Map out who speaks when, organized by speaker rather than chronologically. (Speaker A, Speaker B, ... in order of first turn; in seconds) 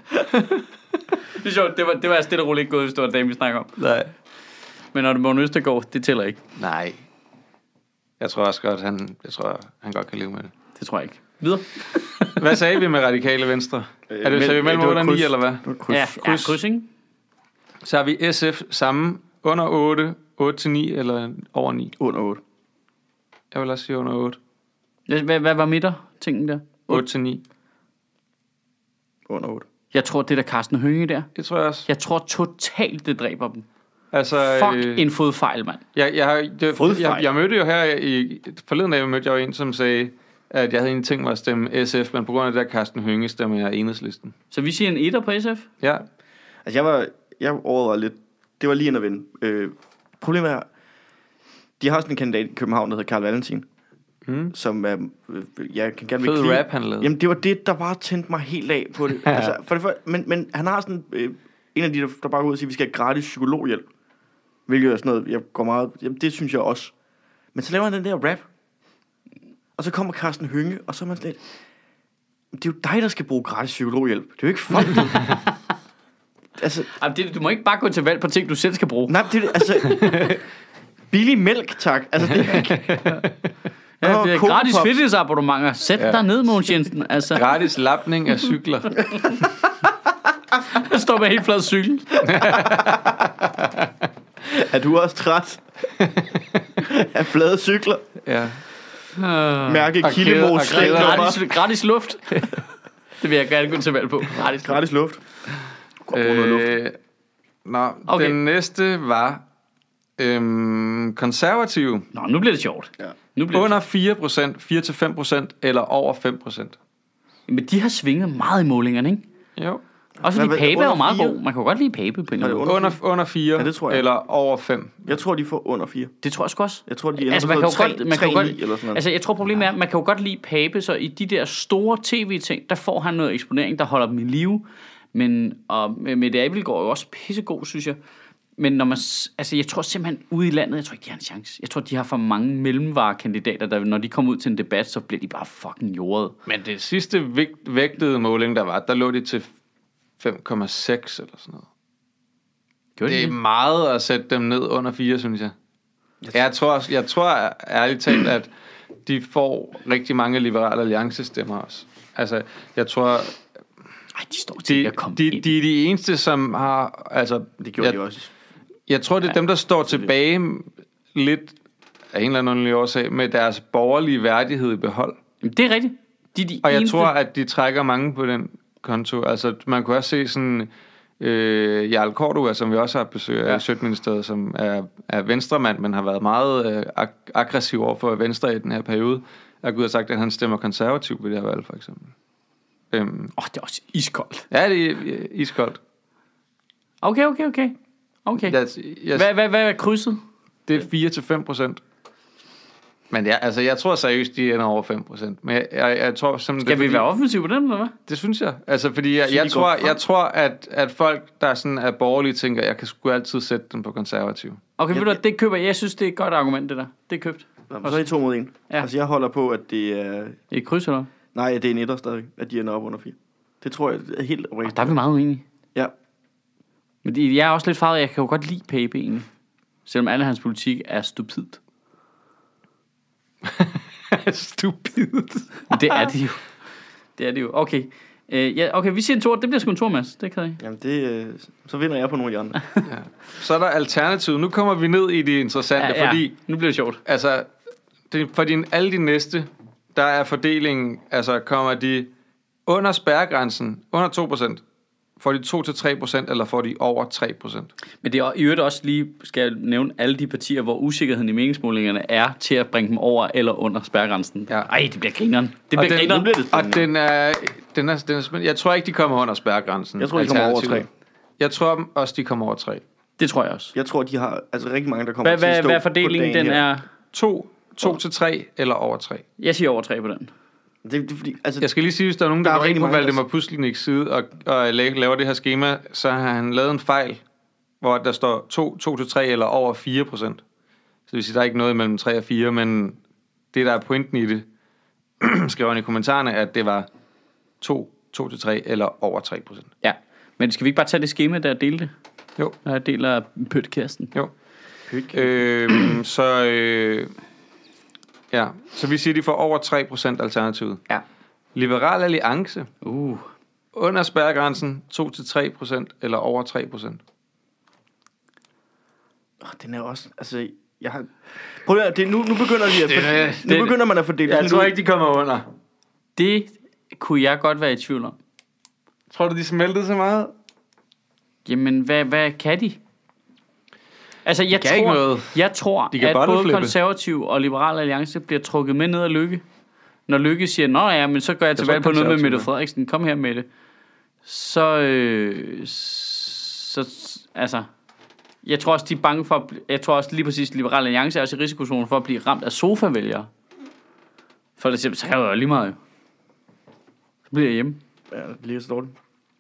Speaker A: 1.4-3.7, 4.9-6.4, 10.8-12.4, 15.9-16.9, 25.1-27.1, 29.9-31.3, 31.9-33.6, 34.4-35.8, 44.5-45.7, 77.0-79.6, 84.0-87.5, 90.6-92.5, 99.2-100.0, 100.6-102.6, 103.2-104.8, 108.1-108.4, 112.1-113.7, 117.5-119.2, 120.2-122.7, 126.2-138.0, 138.6-146.3, 153.0-153.3, 164.2-165.5, 175.4-177.1, 193.4-194.4, 197.0-197.8, 198.3-198.6, 199.1-200.2, 206.6-207.9, 214.8-218.1, 220.5-221.1, 224.7-225.4, 227.0-229.3, 229.9-231.6, 235.7-236.5, 237.2-240.6, 245.8-247.0, 258.0-266.2, 273.2-273.7, 275.2-276.9, 279.4-280.3, 299.8-301.9, 302.6-304.1, 312.8-313.3, 326.2-328.2, 331.4-332.8, 334.2-339.4, 340.1-343.5, 344.2-347.7, 348.4-353.3, 354.6-355.8, 357.3-357.8
Speaker B: 3.8-4.1, 6.6-7.0, 8.2-10.5, 12.4-15.7, 16.2-16.6, 17.8-21.9, 23.5-24.4, 26.9-27.4, 31.4-31.9, 34.1-35.0, 36.0-44.3, 45.8-46.1, 54.3-54.5, 56.2-57.1, 59.2-59.5, 79.9-80.4, 82.4-83.3, 87.3-89.5, 92.2-93.7, 96.0-96.8, 98.2-98.6, 100.0-101.4, 106.1-107.0, 107.7-109.4, 110.2-112.1, 113.5-116.8, 122.7-125.1, 146.5-149.5, 150.2-151.7, 153.1-155.5, 156.3-158.5, 159.1-163.4, 164.7-168.0, 168.9-171.6, 172.1-175.2, 176.6-192.1, 192.9-193.3, 194.5-195.8, 198.4-199.3, 200.7-201.8, 203.1-207.1, 208.1-214.6, 233.4-236.1, 242.8-246.3, 247.1-247.5, 248.1-252.1, 252.7-254.6, 255.2-257.7, 265.8-270.9, 271.4-272.8, 277.1-279.2, 281.6-287.2, 287.8-290.4, 291.1-293.0, 293.5-294.4, 295.2-296.9, 297.6-299.7, 305.1-307.1, 308.3-310.9, 311.6-312.7, 313.7-317.0, 322.8-325.5, 329.1-330.3, 334.5-335.4, 335.9-336.8, 341.6-342.5
Speaker C: 14.1-16.1, 22.0-22.4, 29.3-29.7, 36.8-37.2, 46.6-50.7, 51.8-53.6, 54.5-63.9, 64.7-66.9, 67.5-68.5, 69.8-71.4, 72.5-75.3, 76.6-76.9, 79.1-80.4, 81.1-83.0, 84.0-84.9, 92.5-93.0, 94.5-95.7, 96.8-98.1, 99.7-101.4, 104.5-105.2, 106.1-106.8, 120.2-121.4, 122.4-123.0, 123.6-124.0, 125.1-126.1, 126.9-129.0, 167.6-168.3, 209.2-210.0, 214.9-215.2, 217.7-220.4, 221.3-224.9, 240.6-242.6, 265.8-266.9, 270.0-270.9, 273.7-276.6, 280.8-281.7, 282.4-283.2, 304.9-305.3, 319.4-324.8, 358.1-358.9